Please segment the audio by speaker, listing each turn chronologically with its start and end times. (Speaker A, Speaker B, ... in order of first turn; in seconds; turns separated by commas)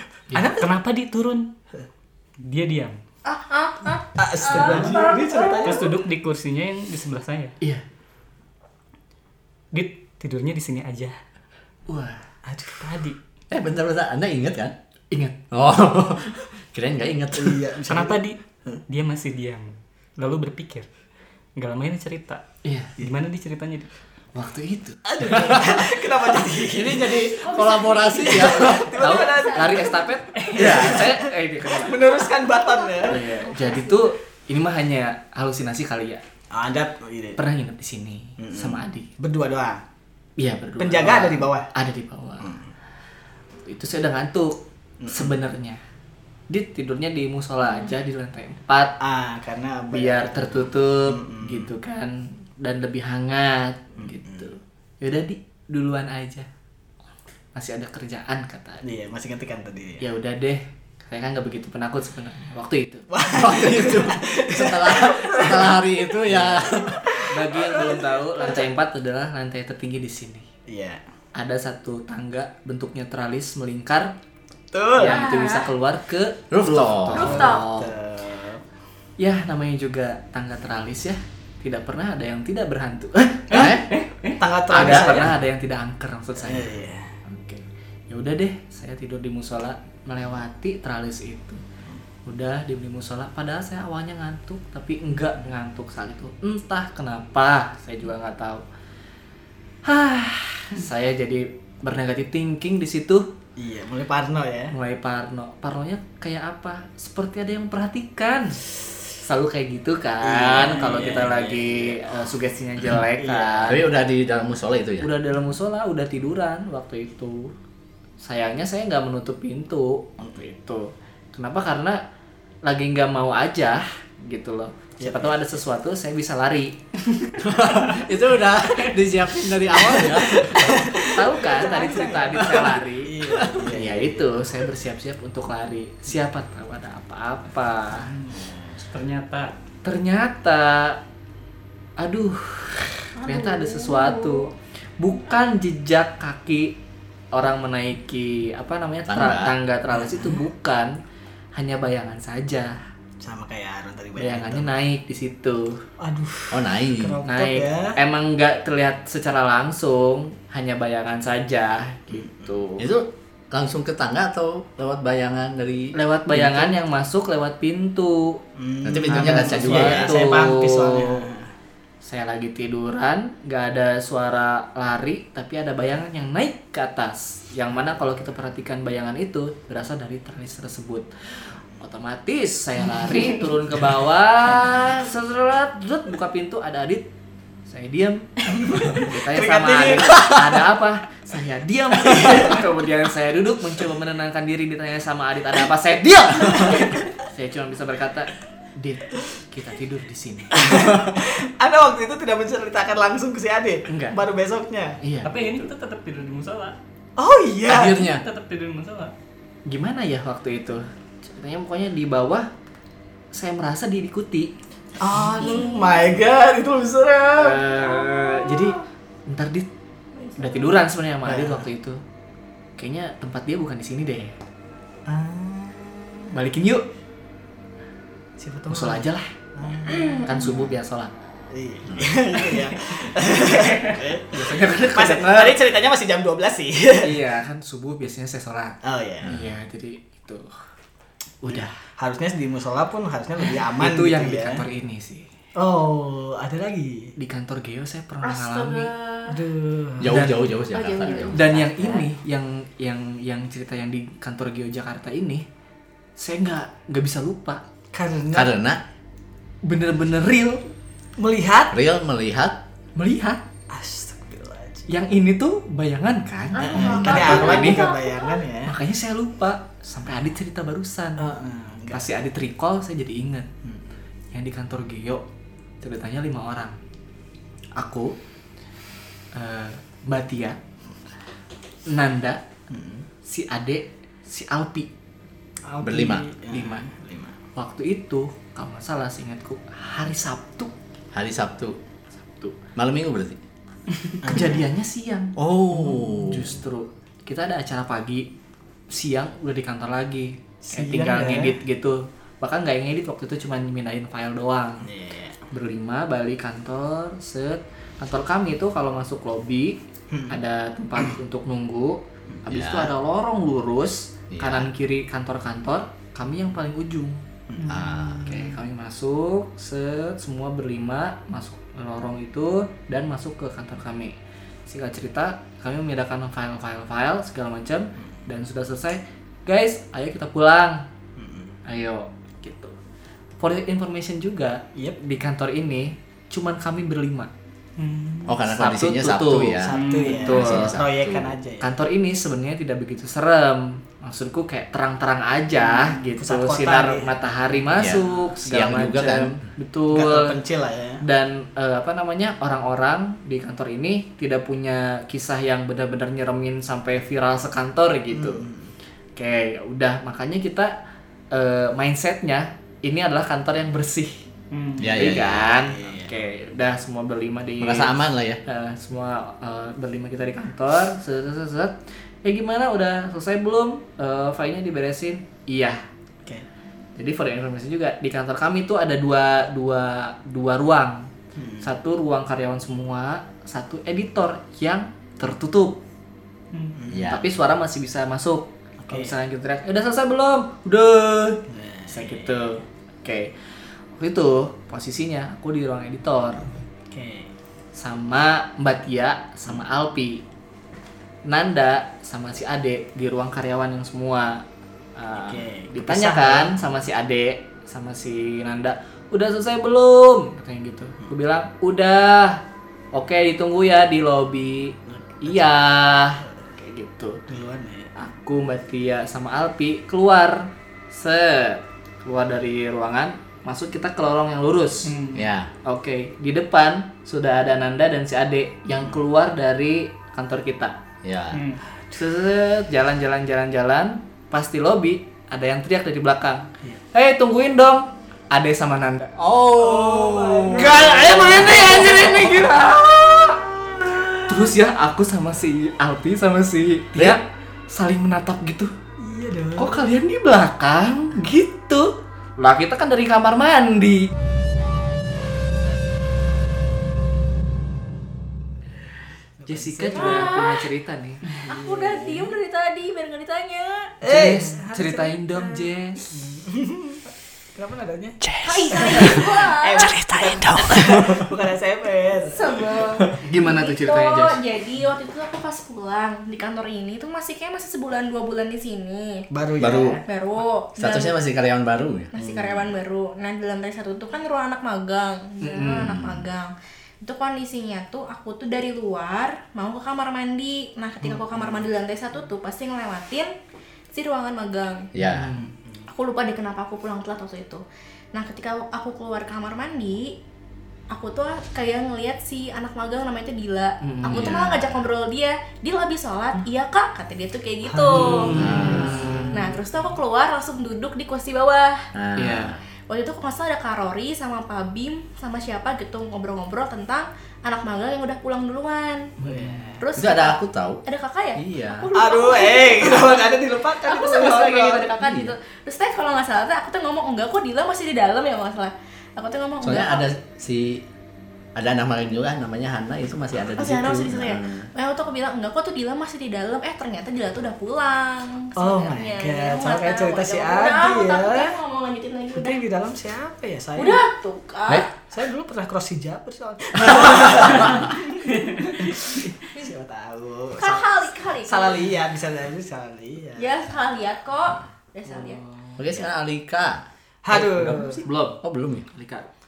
Speaker A: 0.4-1.5, Speaker B: 0.4-0.7, Speaker A: 2.4-3.0, Speaker C: 3.3-5.9, Speaker B: 4.2-6.0, Speaker A: 4.6-4.9, Speaker A: 5.6-7.5, Speaker A: 9.7-11.2, Speaker D: 11.9-12.2, Speaker B: 12.5-13.1, Speaker A: 12.8-13.2, Speaker E: 13.5-14.8, Speaker D: 15.1-15.4, Speaker E: 15.5-17.6, Speaker B: 17.4-18.2, Speaker A: 17.9-20.9, Speaker A: 21.6-22.4, Speaker D: 22.6-22.9, Speaker A: 23.0-23.9, Speaker D: 24.3-25.0, Speaker B: 25.1-27.4, Speaker E: 25.2-25.8, Speaker E: 26.5-29.0, Speaker C: 27.4-30.1, Speaker B: 28.2-33.2, Speaker D: 29.0-32.2, Speaker A: 30.4-30.9, Speaker C: 32.1-34.0, Speaker D: 33.1-36.2, Speaker B: 36.5-37.4, Speaker D: 37.4-39.1, Speaker B: 38.4-39.8, Speaker D: 40.4-42.5, Speaker B: 40.8-41.7, Speaker B: 42.4-42.7, Speaker D: 43.6-45.8, Speaker B: 45.0-45.4, Speaker D: 46.5-49.0, Speaker B: 49.0-51.7, Speaker D: 49.9-56.5, Speaker B: 54.0-54.5, Speaker D: 57.5-58.8, Speaker B: 58.8-60.0, Speaker D: 60.0-63.1, Speaker B: 63.1-68.7, Speaker E: 63.3-67.1, Speaker D: 67.3-70.5, Speaker B: 70.7-71.0, Speaker D: 71.3-74.1, Speaker B: 74.7-75.3, Speaker D: 75.0-77.9, Speaker C: 75.0-75.7, Speaker E: 76.5-77.5, Speaker C: 77.1-77.7, Speaker B: 77.5-78.6, Speaker D: 79.2-83.7, Speaker A: 83.5-84.4, Speaker E: 83.5-83.9, Speaker B: 84.4-85.3, Speaker D: 84.7-86.7, Speaker E: 84.7-85.1, Speaker B: 86.4-87.1, Speaker D: 87.3-91.6, Speaker D: 92.3-98.6, Speaker D: 99.9-103.3, Speaker B: 103.6-104.7, Speaker D: 104.7-108.6, Speaker D: 109.2-113.8, Speaker B: 110.2-112.2, Speaker B: 113.2-113.8, Speaker E: 113.7-115.1, Speaker D: 115.0-117.5, Speaker D: 118.2-122.0, Speaker D: 122.7-126.8, Speaker B: 125.0-125.4, Speaker E: 127.4-131.0, Speaker B: 129.8-134.3, Speaker D: 131.0-138.1, Speaker B: 137.9-138.8, Speaker A: 138.8-139.5, Speaker D: 139.8-141.0, Speaker D: 142.0-146.8, Speaker C: 143.2-144.5, Speaker D: 147.3-151.0, Speaker E: 149.1-149.6, Speaker B: 149.9-150.4, Speaker D: 151.6-152.8, Speaker B: 153.2-154.7, Speaker D: 154.2-155.8, Speaker B: 156.0-158.0, Speaker E: 156.5-157.2, Speaker D: 157.2-162.9, Speaker B: 162.1-162.6, Speaker E: 162.8-166.5, Speaker D: 165.9-168.4, Speaker B: 168.6-171.5, Speaker E: 168.8-170.3, Speaker D: 169.1-171.2, Speaker D: 172.0-187.1, Speaker D: 187.7-188.3, Speaker B: 188.5-190.6, Speaker D: 188.9-200.6, Speaker B: 192.0-192.6, Speaker B: 196.7-197.1, Speaker B: 200.5-205.0, Speaker D: 203.9-204.2, Speaker D: 205.0-205.4, Speaker A: 205.2-206.8, Speaker B: 207.2-208.0, Speaker E: 207.7-208.2, Speaker A: 208.0-209.1, Speaker D: 209.7-212.5, Speaker D: 213.3-214.5, Speaker B: 215.0-217.6, Speaker C: 215.2-216.1, Speaker D: 217.4-219.7, Speaker C: 217.9-218.8, Speaker C: 220.2-220.7, Speaker D: 220.4-222.0, Speaker B: 221.2-221.7, Speaker D: 222.8-224.3, Speaker B: 225.1-226.3, Speaker D: 226.3-226.9, Speaker B: 228.4-230.7, Speaker D: 228.7-229.3, Speaker C: 229.9-230.2, Speaker D: 230.2-231.1, Speaker B: 231.5-237.2, Speaker E: 231.9-232.2, Speaker D: 234.3-235.6, Speaker D: 237.0-240.5, Speaker B: 238.8-239.3, Speaker E: 239.2-239.5, Speaker D: 241.4-241.7, Speaker B: 241.5-244.7, Speaker D: 243.4-245.3, Speaker B: 245.6-247.1, Speaker D: 247.2-248.9, Speaker C: 248.2-249.4, Speaker B: 249.3-250.3, Speaker E: 250.0-252.0, Speaker D: 250.1-250.5, Speaker C: 250.7-252.0, Speaker D: 251.3-255.4, Speaker D: 256.2-257.6, Speaker B: 257.9-258.5, Speaker E: 258.3-258.8, Speaker D: 259.6-260.6, Speaker B: 261.2-261.8, Speaker E: 261.7-262.6, Speaker D: 263.0-263.4, Speaker B: 263.7-264.9, Speaker D: 264.9-267.9, Speaker C: 266.6-268.4, Speaker B: 266.6-268.8, Speaker D: 268.7-271.3, Speaker B: 271.2-272.1, Speaker D: 271.9-273.5, Speaker D: 274.3-275.2, Speaker D: 275.8-276.8, Speaker D: 277.8-278.1, Speaker D: 279.3-280.6, Speaker D: 281.9-282.4, Speaker B: 282.7-283.1, Speaker D: 283.3-284.9, Speaker B: 285.7-287.4, Speaker E: 285.8-286.3, Speaker D: 286.5-286.9, Speaker D: 287.6-290.7, Speaker E: 291.1-291.8, Speaker D: 292.2-292.6, Speaker E: 292.8-293.4, Speaker B: 294.2-294.6, Speaker D: 294.2-298.3, Speaker E: 295.4-296.6, Speaker D: 298.9-304.9, Speaker B: 300.6-301.6, Speaker B: 304.8-305.4, Speaker D: 305.5-309.8, Speaker B: 310.1-310.4, Speaker D: 310.3-317.2, Speaker E: 312.5-312.9, Speaker E: 314.3-314.7, Speaker B: 317.5-318.6, Speaker A: 317.6-317.9, Speaker E: 317.7-318.3, Speaker D: 318.2-330.9, Speaker B: 331.2-331.5, Speaker D: 331.7-332.8, Speaker D: 333.4-337.3, Speaker A: 337.8-338.4, Speaker E: 338.3-341.4, Speaker D: 338.4-340.8, Speaker B: 339.6-341.7, Speaker A: 339.7-340.4, Speaker D: 341.6-350.4, Speaker B: 345.6-347.1, Speaker E: 347.8-349.4, Speaker B: 349.9-351.0, Speaker D: 351.0-358.5, Speaker B: 358.1-358.7, Speaker D: 359.2-360.7, Speaker D: 361.3-364.2, Speaker A: 364.5-364.9, Speaker E: 364.8-365.5, Speaker D: 364.9-375.8, Speaker B: 364.9-366.1, Speaker E: 367.6-368.4, Speaker D: 377.0-381.1, Speaker B: 381.4-381.7, Speaker D: 381.6-385.8, Speaker A: 386.5-386.8, Speaker B: 386.7-387.1, Speaker E: 386.9-387.3, Speaker D: 387.1-393.3, Speaker B: 388.8-389.1, Speaker B: 391.5-392.5, Speaker D: 394.0-396.5, Speaker B: 396.9-397.3, Speaker D: 397.8-400.2, Speaker D: 401.3-404.4, Speaker D: 405.0-412.4, Speaker B: 405.1-406.6, Speaker D: 412.9-417.2, Speaker B: 414.9-415.5, Speaker B: 417.3-417.9, Speaker D: 418.0-424.9, Speaker A: 424.9-425.3, Speaker E: 425.1-425.5, Speaker D: 425.6-430.8, Speaker E: 431.0-431.4, Speaker A: 431.3-431.6, Speaker D: 431.9-439.1, Speaker E: 439.2-442.3, Speaker B: 439.5-442.5, Speaker D: 440.5-443.4, Speaker B: 443.7-444.2, Speaker D: 444.3-448.7, Speaker B: 449.0-449.8, Speaker D: 449.6-454.1, Speaker B: 459.4-460.3, Speaker D: 459.5-461.2, Speaker C: 459.9-460.7, Speaker C: 461.4-463.9, Speaker B: 461.5-462.3, Speaker B: 464.0-465.2, Speaker D: 464.1-466.0, Speaker C: 465.3-465.6, Speaker B: 466.1-468.2, Speaker E: 468.3-471.3, Speaker C: 468.4-470.0, Speaker B: 468.8-472.6, Speaker C: 472.2-481.1, Speaker D: 473.2-474.4, Speaker B: 479.3-480.0, Speaker E: 479.6-480.0, Speaker E: 480.8-482.7, Speaker C: 482.1-493.3, Speaker D: 485.4-485.9, Speaker E: 485.8-486.3, Speaker C: 493.9-494.9, Speaker E: 494.9-495.3, Speaker D: 495.0-495.5, Speaker C: 495.9-500.2, Speaker C: 500.9-508.6, Speaker D: 503.8-504.4, Speaker E: 504.1-504.9, Speaker B: 507.7-509.8, Speaker D: 507.9-509.4, Speaker E: 508.4-509.2, Speaker C: 509.3-511.9, Speaker E: 511.9-512.6, Speaker D: 512.2-512.6, Speaker C: 512.9-519.1, Speaker D: 519.2-519.7, Speaker B: 519.2-519.8, Speaker C: 519.8-530.1, Speaker E: 520.0-520.8, Speaker E: 521.4-521.9, Speaker B: 522.0-524.9, Speaker E: 525.0-525.3, Speaker E: 529.6-530.9, Speaker E: 531.6-534.7, Speaker C: 533.5-542.6, Speaker B: 538.6-541.5, Speaker B: 542.3-544.0, Speaker C: 543.8-544.9, Speaker B: 545.1-550.9, Speaker E: 546.8-547.9, Speaker C: 550.5-551.9, Speaker B: 551.5-553.5, Speaker C: 553.4-555.4, Speaker D: 555.1-555.8, Speaker E: 555.8-556.8, Speaker B: 557.2-558.0, Speaker D: 557.3-559.3, Speaker E: 558.4-558.9